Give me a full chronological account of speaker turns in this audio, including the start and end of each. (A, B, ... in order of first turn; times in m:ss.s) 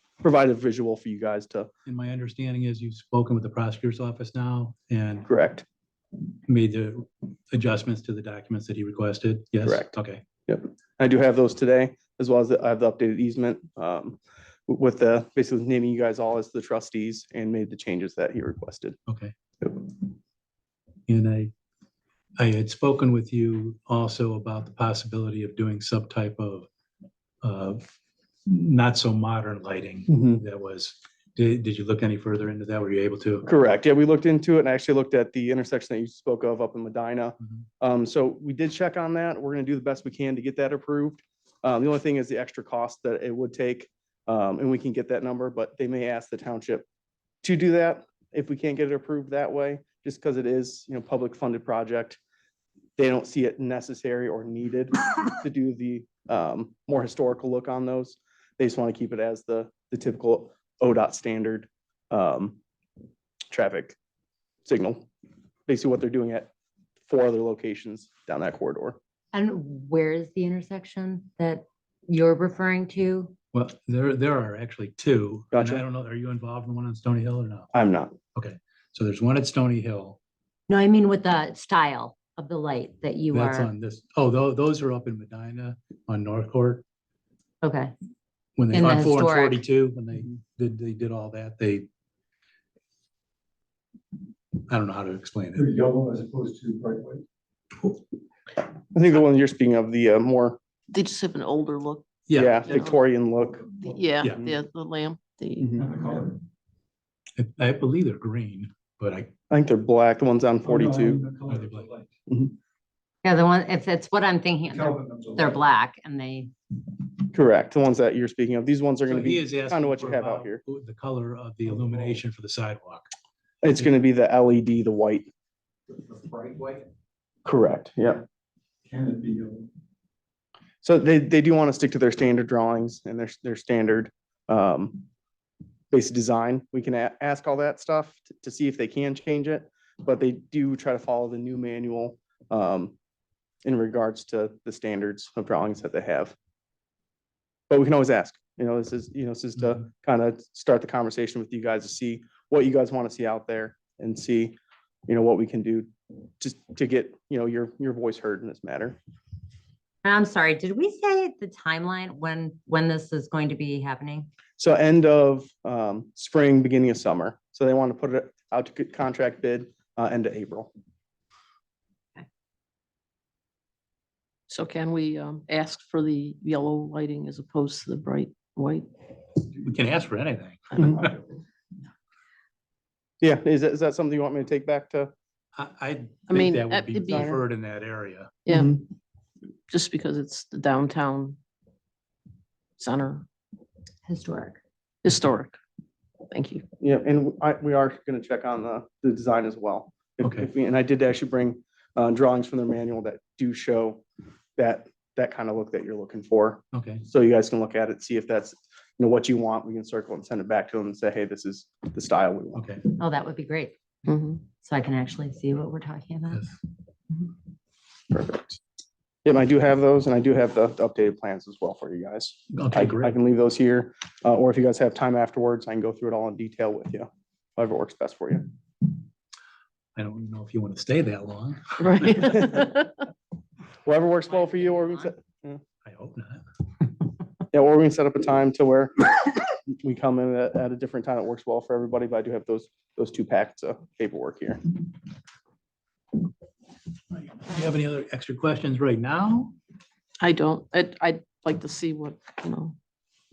0:00.2-0:01.7 A
0:01.9-0:05.3 B
0:05.3-0:05.6 A
0:06.5-0:10.2 B
0:09.6-0:09.9 A
0:10.5-0:19.0 A
0:19.1-0:19.3 B
0:21.1-0:21.5 B
0:22.4-0:26.7 B
0:27.4-0:27.8 B
0:28.5-0:33.4 B
0:30.1-0:30.4 A
0:33.5-0:46.9 A
0:47.4-0:52.2 A
0:53.0-1:02.6 A
1:03.5-1:04.0 A
1:04.6-1:05.1 A
1:05.7-1:06.5 A
1:07.1-1:09.0 A
1:09.3-1:13.3 C
1:13.5-1:17.7 B
1:15.5-1:15.8 A
1:17.7-1:18.2 A
1:18.4-1:20.2 B
1:20.7-1:23.7 C
1:23.3-1:26.8 B
1:27.6-1:28.0 C
1:28.6-1:31.9 B
1:28.7-1:29.6 C
1:34.7-1:35.7 B
1:35.6-1:37.2 D
1:38.9-1:40.6 A
1:40.9-1:43.0 E
1:42.3-1:42.6 B
1:42.3-1:43.7 A
1:43.8-1:45.8 E
1:44.2-1:44.6 A
1:45.6-1:45.9 A
1:45.8-1:46.4 D
1:47.4-1:49.3 B
1:49.5-1:51.2 A
1:50.6-1:52.1 D
1:51.5-1:51.9 B
1:52.3-1:52.5 A
1:53.2-1:56.5 C
1:54.7-1:55.5 D
1:57.3-2:00.6 A
1:59.1-2:03.1 B
2:03.6-2:05.3 A
2:06.0-2:06.8 D
2:07.4-2:08.2 A
2:08.9-2:09.7 D
2:10.8-2:15.0 A
2:15.9-2:23.0 A
2:23.6-2:26.4 A
2:27.7-2:34.6 A
2:35.1-2:35.9 A
2:36.4-2:39.0 A
2:40.0-2:44.3 C
2:44.6-2:50.7 A
2:54.5-2:58.9 E
2:59.6-3:01.1 B
3:00.7-3:01.0 E
3:00.8-3:01.1 A
3:03.2-3:05.1 A
3:05.6-3:08.3 B
3:06.3-3:07.4 E
3:08.4-3:08.8 E
3:08.5-3:08.8 A
3:09.7-3:11.4 E
3:12.8-3:13.2 E
3:14.1-3:14.6 C
3:15.0-3:15.6 E
3:16.3-3:16.7 E
3:16.8-3:24.0 A
3:20.2-3:20.5 B
3:24.6-3:32.7 A
3:26.7-3:27.0 B
3:32.6-3:32.8 B
3:33.0-3:33.7 C
3:34.1-3:34.5 E
3:34.6-3:36.4 C
3:38.1-3:38.6 A
3:39.2-3:48.5 A
3:42.5-3:43.2 B
3:50.0-3:52.6 B
3:51.8-3:52.9 E
3:53.8-3:55.6 A
3:54.3-3:55.1 C
3:55.8-3:56.4 B
3:57.5-3:59.1 A
3:59.7-4:04.6 A
4:07.1-4:09.6 B
4:10.2-4:12.8 E